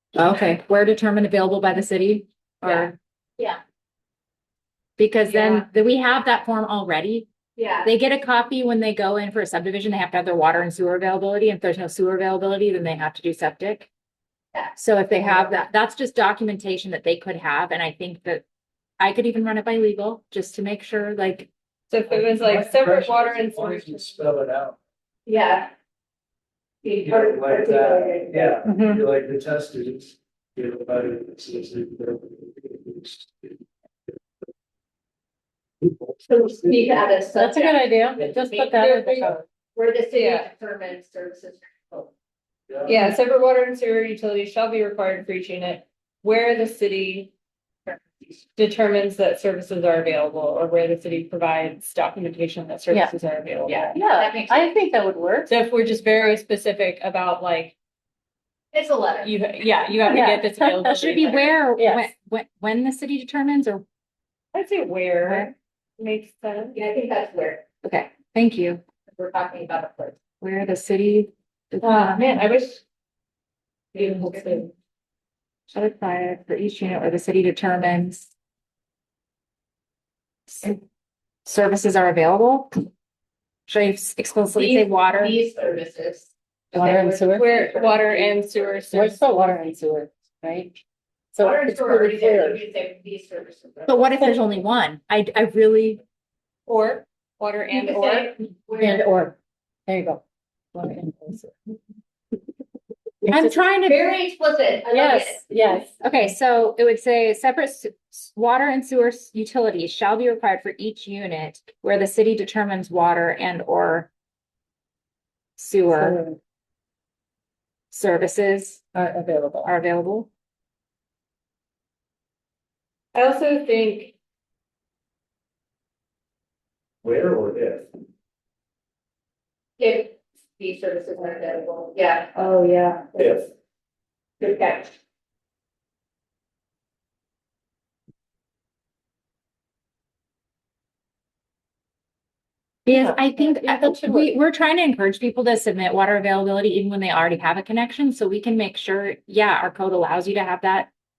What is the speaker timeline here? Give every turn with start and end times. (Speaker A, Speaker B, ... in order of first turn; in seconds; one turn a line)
Speaker A: 0.1-2.9
Speaker B: 2.6-3.6
Speaker A: 5.0-7.3
Speaker B: 5.2-5.7
Speaker B: 7.5-7.9
Speaker A: 7.8-13.9
Speaker B: 14.5-15.5
Speaker A: 14.7-18.4
Speaker A: 19.0-21.5
Speaker C: 21.9-24.2
Speaker D: 22.1-24.8
Speaker B: 25.3-25.7
Speaker B: 26.8-28.6
Speaker D: 27.0-33.6
Speaker E: 28.6-29.0
Speaker D: 35.8-36.1
Speaker B: 36.3-38.9
Speaker E: 37.3-39.4
Speaker C: 38.8-39.3
Speaker B: 39.8-42.1
Speaker C: 40.1-40.5
Speaker D: 42.7-43.0
Speaker C: 42.8-47.3
Speaker B: 47.9-48.4
Speaker C: 48.5-54.0
Speaker B: 53.7-54.7
Speaker E: 53.9-55.5
Speaker C: 55.5-57.7
Speaker B: 58.7-59.3
Speaker C: 59.2-61.4
Speaker E: 60.1-62.1
Speaker A: 60.8-63.8
Speaker C: 64.5-66.8
Speaker B: 66.7-67.6
Speaker A: 67.8-68.8
Speaker B: 69.1-70.2
Speaker A: 70.4-72.2
Speaker C: 71.8-72.8
Speaker C: 73.9-74.7
Speaker B: 74.0-74.4
Speaker A: 75.7-78.3
Speaker A: 80.5-80.8
Speaker A: 81.4-82.8
Speaker A: 83.7-85.4
Speaker B: 84.5-88.7
Speaker A: 86.7-87.1
Speaker E: 86.7-87.6
Speaker C: 87.3-89.2
Speaker E: 88.9-90.8
Speaker E: 91.3-92.6
Speaker B: 91.4-94.0
Speaker A: 93.8-96.0
Speaker C: 96.7-98.3
Speaker B: 97.7-99.1
Speaker E: 98.8-99.3
Speaker E: 99.9-100.2
Speaker E: 100.7-101.5
Speaker E: 103.2-103.6
Speaker A: 103.3-104.2
Speaker B: 103.8-105.4
Speaker E: 104.9-106.0
Speaker A: 106.0-114.1
Speaker A: 115.6-116.2
Speaker E: 115.9-116.4
Speaker A: 117.9-118.8
Speaker E: 118.9-119.7
Speaker A: 119.6-120.3
Speaker C: 123.1-124.1
Speaker D: 127.0-127.9
Speaker B: 129.8-132.3
Speaker C: 132.3-133.2
Speaker B: 133.2-133.5
Speaker D: 133.2-133.4
Speaker B: 134.4-134.9
Speaker A: 142.8-150.9
Speaker E: 142.9-144.3